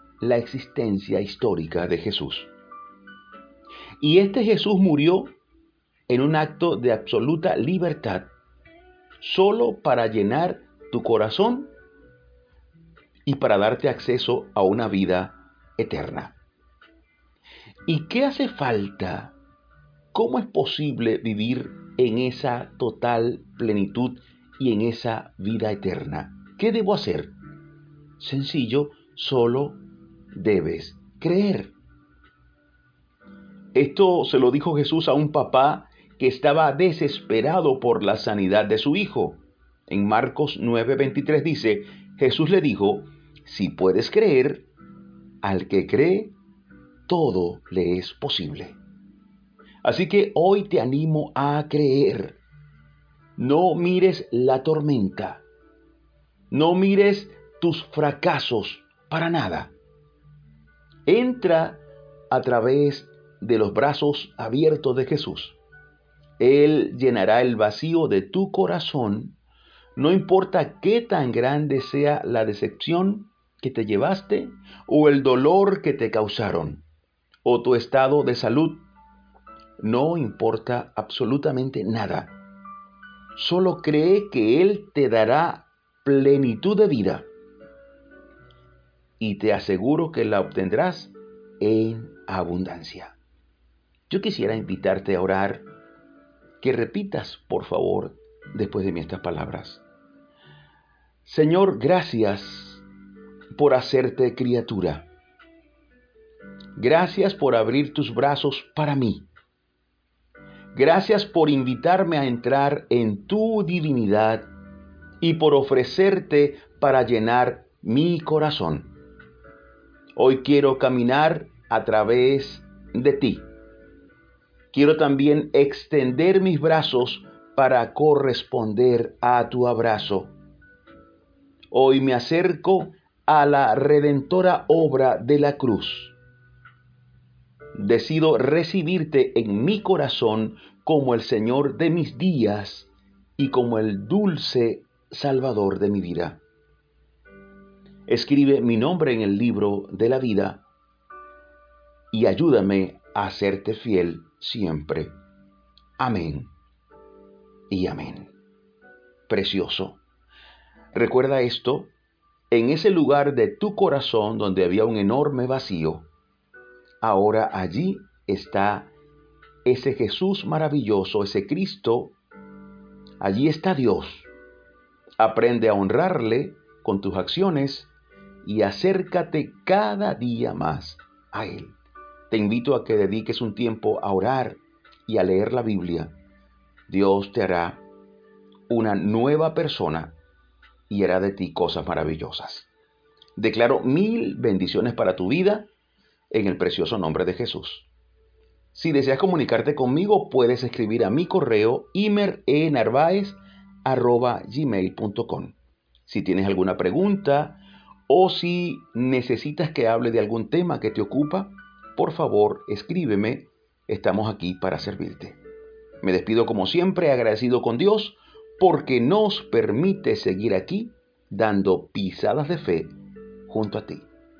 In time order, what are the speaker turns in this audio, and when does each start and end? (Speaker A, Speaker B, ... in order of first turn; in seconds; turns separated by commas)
Speaker A: 0.2-2.5, Speaker A: 4.0-5.3, Speaker A: 6.1-8.3, Speaker A: 9.2-11.7, Speaker A: 13.2-16.4, Speaker A: 17.9-19.3, Speaker A: 20.1-27.3, Speaker A: 28.2-29.8, Speaker A: 30.3-31.7, Speaker A: 33.8-44.7, Speaker A: 45.4-46.3, Speaker A: 47.1-48.8, Speaker A: 49.8-52.4, Speaker A: 53.4-55.4, Speaker A: 56.5-59.7, Speaker A: 61.1-65.6, Speaker A: 66.4-69.4, Speaker A: 70.0-76.8, Speaker A: 77.4-78.8, Speaker A: 79.8-82.4, Speaker A: 83.3-87.3, Speaker A: 89.2-93.2, Speaker A: 94.1-95.7, Speaker A: 96.6-99.8, Speaker A: 101.2-102.8, Speaker A: 103.5-105.1, Speaker A: 106.8-109.3, Speaker A: 110.7-114.5, Speaker A: 115.2-118.9, Speaker A: 120.1-123.5, Speaker A: 124.7-130.3, Speaker A: 131.7-136.1, Speaker A: 137.7-146.4, Speaker A: 148.1-150.6, Speaker A: 152.1-155.1, Speaker A: 156.0-156.5, Speaker A: 157.7-158.3, Speaker A: 159.3-160.0, Speaker A: 160.9-161.9, Speaker A: 162.5-166.1, Speaker A: 167.0-168.9, Speaker A: 169.6-172.1, Speaker A: 173.2-174.3, Speaker A: 175.2-177.9, Speaker A: 178.4-181.8, Speaker A: 182.3-186.1, Speaker A: 186.9-187.8, Speaker A: 188.7-190.2, Speaker A: 190.9-192.7, Speaker A: 193.4-195.7, Speaker A: 196.3-197.9, Speaker A: 198.7-215.4, Speaker A: 216.0-222.9, Speaker A: 223.5-224.1